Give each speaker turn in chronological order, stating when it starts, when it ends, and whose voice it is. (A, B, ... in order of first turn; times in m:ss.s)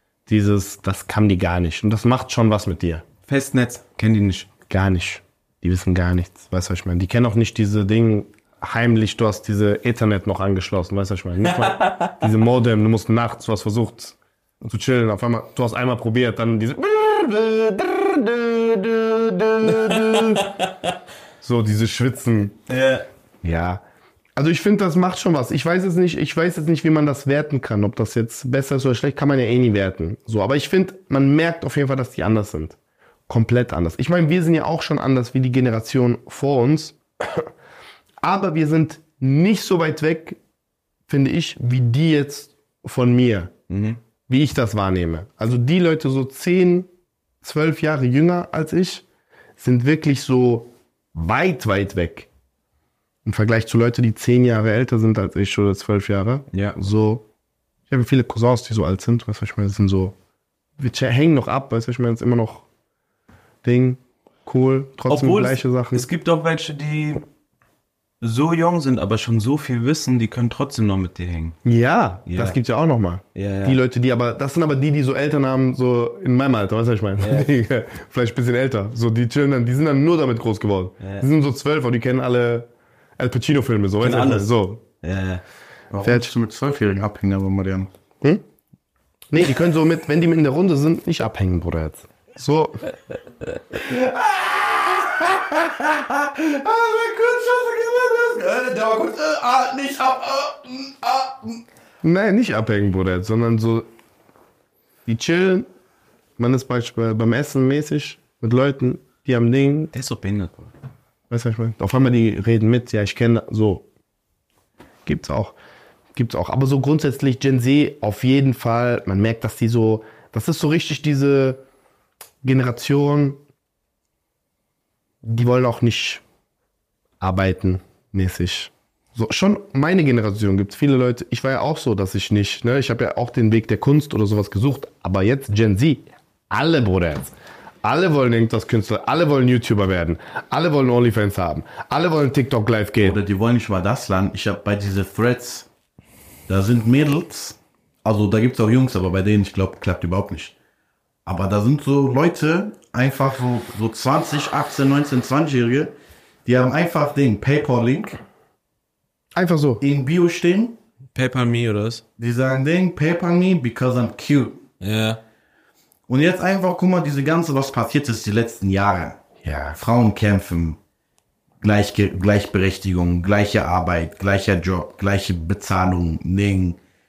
0:00.3-0:03.0 A
0:03.3-0:04.5 B
0:04.7-0:20.5 A
0:11.8-0:12.1 B
0:19.8-0:20.9 B
0:21.4-0:22.6 A
0:22.7-0:23.1 B
0:23.4-0:23.8 A
0:24.4-0:32.8 A
0:33.3-0:37.5 A
0:38.2-0:40.4 A
0:41.1-0:43.5 A
0:43.7-0:44.0 C
0:44.3-0:46.9 A
0:47.4-0:49.0 A
0:49.6-0:52.3 A
0:53.2-0:57.2 A
0:56.5-0:56.8 B
0:57.9-1:00.2 A
1:00.8-1:02.6 A
1:03.6-1:06.1 A
1:05.1-1:07.2 B
1:08.2-1:11.6 B
1:11.6-1:24.8 A
1:12.3-1:12.6 B
1:13.4-1:13.8 B
1:17.2-1:17.5 B
1:21.0-1:21.3 B
1:24.0-1:25.4 B
1:25.9-1:27.9 C
1:26.0-1:26.3 A
1:29.3-1:32.8 A
1:33.7-1:41.6 C
1:42.0-1:43.9 A
1:45.1-1:45.7 A
1:46.4-1:49.9 A
1:49.9-1:50.7 B
1:51.3-1:53.8 A
1:55.1-1:55.6 A
1:56.2-2:01.6 A
2:02.4-2:03.4 A
2:05.2-2:06.2 A
2:07.2-2:23.2 A
2:23.0-2:25.7 C
2:26.5-2:30.5 C
2:31.3-2:35.9 C
2:36.4-2:38.2 C
2:39.3-2:39.8 A
2:39.8-2:40.8 C
2:41.2-2:42.0 B
2:42.2-2:44.6 C
2:44.8-2:45.2 B
2:46.1-2:49.2 C
2:49.4-2:49.8 A
2:49.8-2:50.8 C
2:51.6-2:56.8 C